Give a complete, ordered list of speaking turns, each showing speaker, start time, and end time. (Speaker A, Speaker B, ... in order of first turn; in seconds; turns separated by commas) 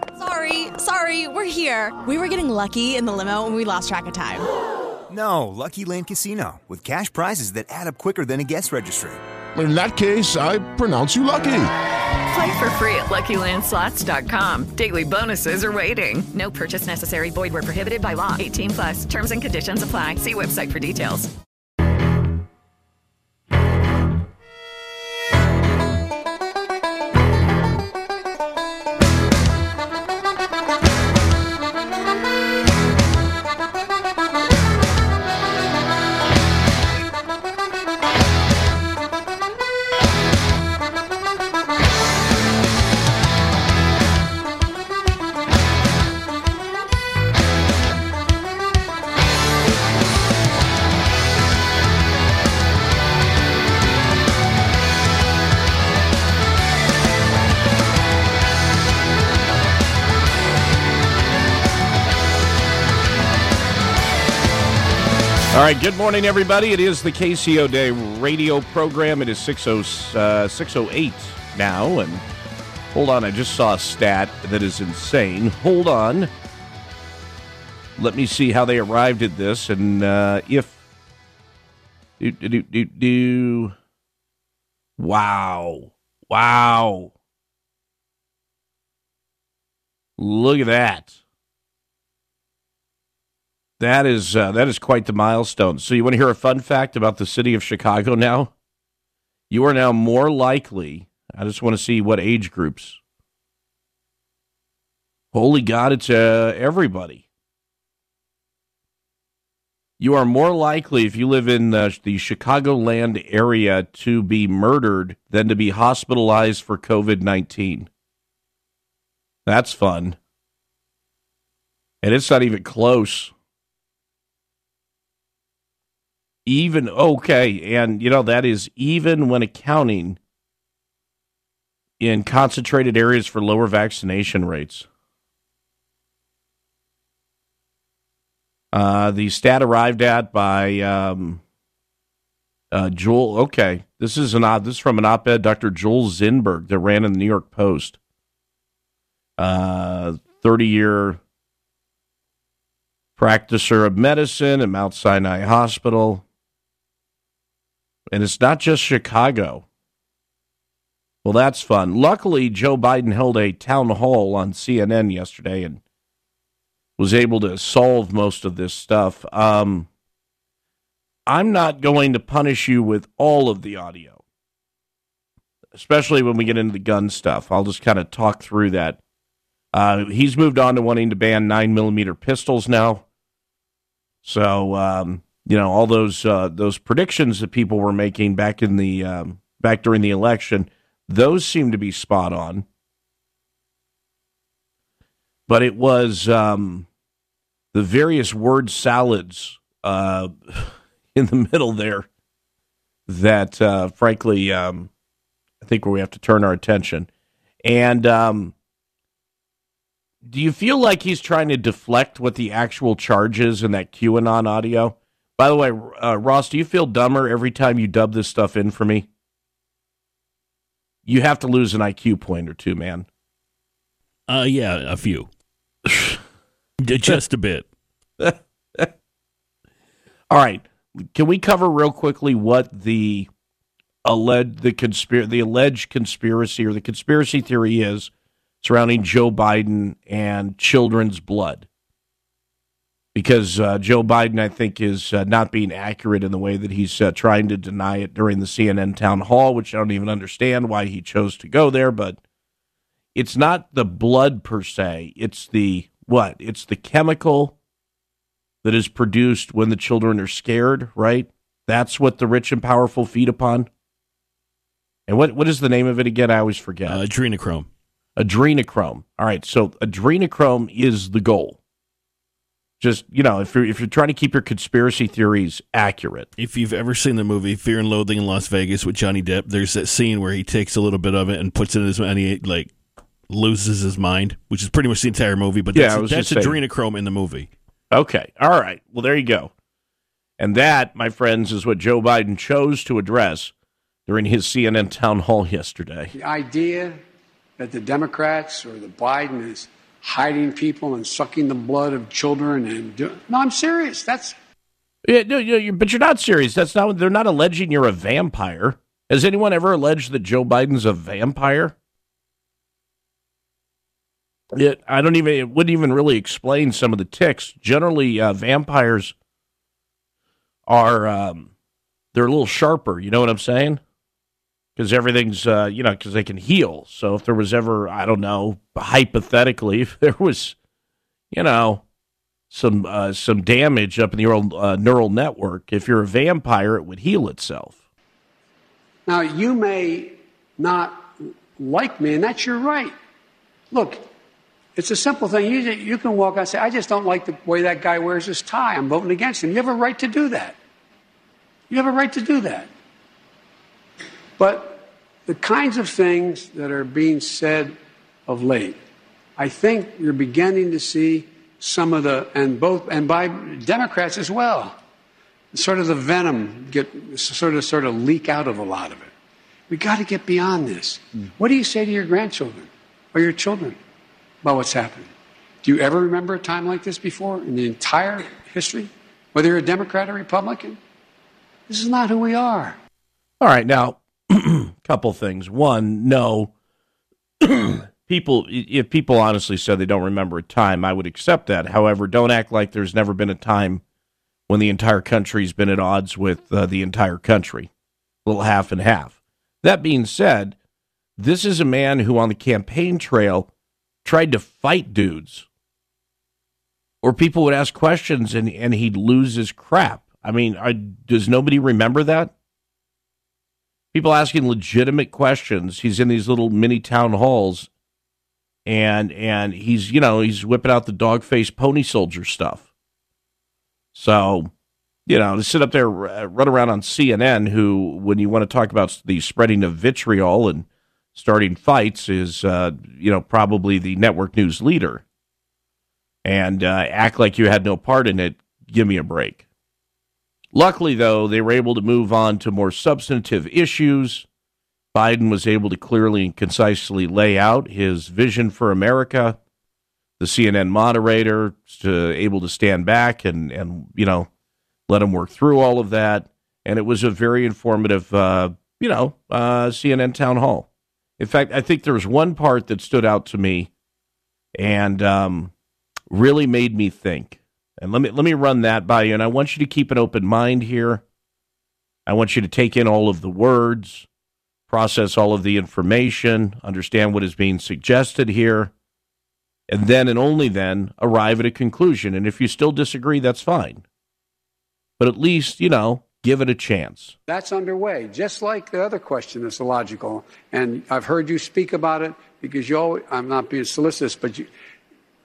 Speaker A: 0.2-4.5, Speaker B: 5.1-9.2, Speaker C: 9.6-11.7, Speaker D: 12.3-21.3, Speaker E: 65.5-72.2, Speaker E: 72.9-76.3, Speaker E: 78.0-80.8, Speaker E: 82.2-83.7, Speaker E: 85.0-87.1, Speaker E: 90.2-91.2, Speaker E: 93.8-98.5, Speaker E: 99.5-103.0, Speaker E: 105.3-107.2, Speaker E: 110.0-117.9, Speaker E: 119.5-120.2, Speaker E: 122.0-123.3, Speaker E: 126.5-130.2, Speaker E: 132.0-134.9, Speaker E: 138.7-141.4, Speaker E: 142.7-148.0, Speaker E: 149.4-151.2, Speaker E: 153.2-156.2, Speaker E: 158.1-159.7, Speaker E: 161.2-165.8, Speaker E: 167.0-169.9, Speaker E: 171.3-174.2, Speaker E: 175.8-179.0, Speaker E: 179.7-183.1, Speaker E: 184.2-192.7, Speaker E: 195.5-196.9, Speaker E: 197.7-202.1, Speaker E: 203.1-204.9, Speaker E: 205.6-207.1, Speaker E: 207.6-208.5, Speaker E: 210.2-219.1, Speaker E: 221.1-223.1, Speaker F: 224.3-225.3, Speaker E: 225.9-226.2, Speaker F: 226.8-227.7, Speaker E: 228.2-228.9, Speaker E: 230.3-233.3, Speaker E: 234.0-238.1, Speaker E: 238.6-241.7, Speaker E: 243.2-252.2, Speaker E: 253.2-257.6, Speaker E: 258.6-263.7, Speaker E: 265.1-267.0, Speaker F: 266.9-267.7, Speaker E: 268.2-271.6, Speaker E: 272.8-276.3, Speaker F: 276.4-282.7, Speaker F: 283.3-287.5, Speaker E: 285.7-286.6, Speaker E: 287.9-289.5, Speaker E: 290.4-293.5, Speaker E: 294.1-296.1, Speaker G: 296.1-297.0, Speaker G: 297.6-304.4, Speaker E: 305.1-311.8, Speaker E: 314.5-319.1, Speaker E: 320.7-321.5, Speaker E: 322.1-323.8, Speaker E: 324.8-330.6, Speaker E: 331.3-331.8, Speaker E: 332.5-337.8, Speaker G: 339.1-342.9, Speaker G: 343.7-344.1, Speaker G: 344.8-350.6, Speaker G: 351.7-352.7, Speaker G: 354.4-357.8, Speaker G: 358.3-358.8, Speaker G: 359.4-364.8, Speaker G: 365.5-369.1, Speaker G: 369.7-373.8, Speaker G: 374.4-375.1, Speaker G: 375.6-380.8, Speaker G: 381.7-382.8, Speaker E: 383.4-386.5, Speaker E: 387.4-393.8, Speaker E: 394.5-397.7, Speaker E: 398.2-400.6, Speaker E: 401.2-403.5, Speaker E: 404.0-405.5, Speaker E: 407.0-412.3, Speaker E: 413.9-417.7, Speaker E: 418.7-422.7, Speaker E: 423.9-424.5, Speaker E: 425.1-435.0, Speaker E: 436.2-439.4, Speaker E: 440.6-444.3, Speaker E: 444.9-449.4, Speaker E: 450.2-454.3, Speaker E: 454.9-460.7, Speaker E: 461.2-463.7, Speaker E: 464.6-465.5, Speaker E: 466.1-471.0, Speaker E: 472.1-474.1, Speaker E: 474.7-478.7, Speaker E: 479.7-483.8, Speaker E: 485.0-487.1, Speaker G: 487.3-494.5